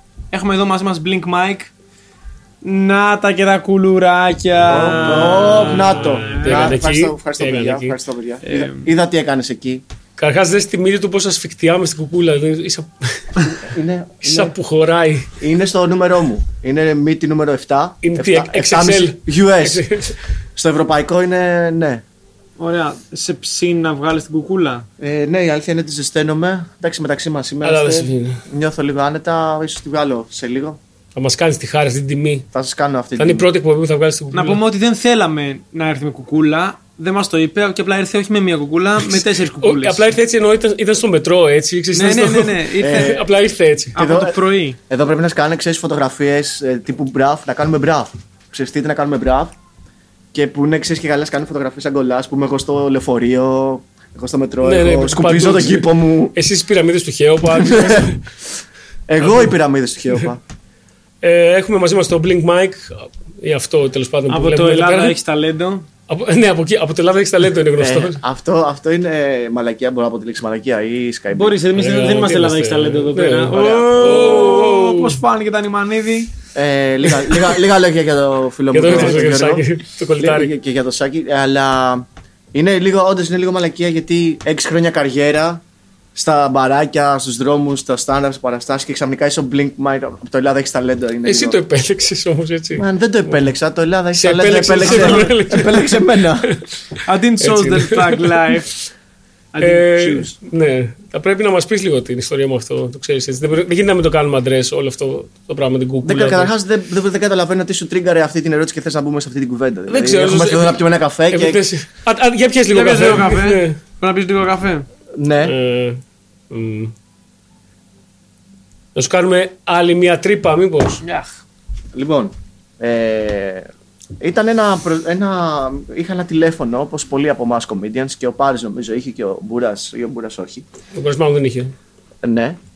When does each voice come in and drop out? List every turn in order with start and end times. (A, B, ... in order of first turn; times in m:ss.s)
0:00.3-0:01.7 A
0:02.6-0:06.8 A
0:04.7-0:09.8 B
0:05.1-0:08.0 C
0:08.4-0:08.9 A
0:10.2-0:13.6 C
0:13.5-0:14.6 B
0:14.2-0:15.3 C
0:15.4-0:19.8 B
0:18.0-0:20.2 C
0:20.6-0:22.0 B
0:22.6-0:24.9 A
0:25.0-0:30.8 B
0:27.6-0:28.4 C
0:31.2-0:32.5 C
0:32.5-0:33.5 B
0:33.2-0:34.6 C
0:34.3-0:40.1 A
0:39.0-0:44.0 C
0:41.9-0:43.2 A
0:42.8-0:43.2 B
0:44.0-0:44.8 A
0:44.0-0:44.4 B
0:44.9-0:49.5 B
0:50.3-0:56.4 B
0:54.6-0:58.2 C
0:57.5-0:58.2 B
0:59.1-1:00.4 B
0:59.2-0:59.5 C
1:01.2-1:05.2 C
1:04.3-1:05.9 A
1:06.1-1:08.2 C
1:07.8-1:11.6 B
1:11.3-1:16.3 A
1:11.8-1:15.2 C
1:13.5-1:14.6 B
1:16.6-1:19.6 B
1:18.7-1:20.5 C
1:20.2-1:25.6 B
1:26.2-1:31.6 B
1:31.2-1:33.4 C
1:32.8-1:36.5 B
1:34.1-1:36.6 C
1:34.8-1:35.3 A
1:37.0-1:38.8 A
1:37.4-1:38.6 C
1:39.5-1:40.3 A
1:39.6-1:46.5 C
1:46.0-1:51.6 B
1:49.9-1:53.8 C
1:52.7-1:54.9 A
1:55.2-1:55.6 B
1:55.4-1:56.9 C
1:59.0-2:01.0 C
2:01.0-2:01.3 A
2:01.9-2:03.7 B
2:04.2-2:10.7 B
2:10.9-2:11.7 C
2:12.2-2:12.6 B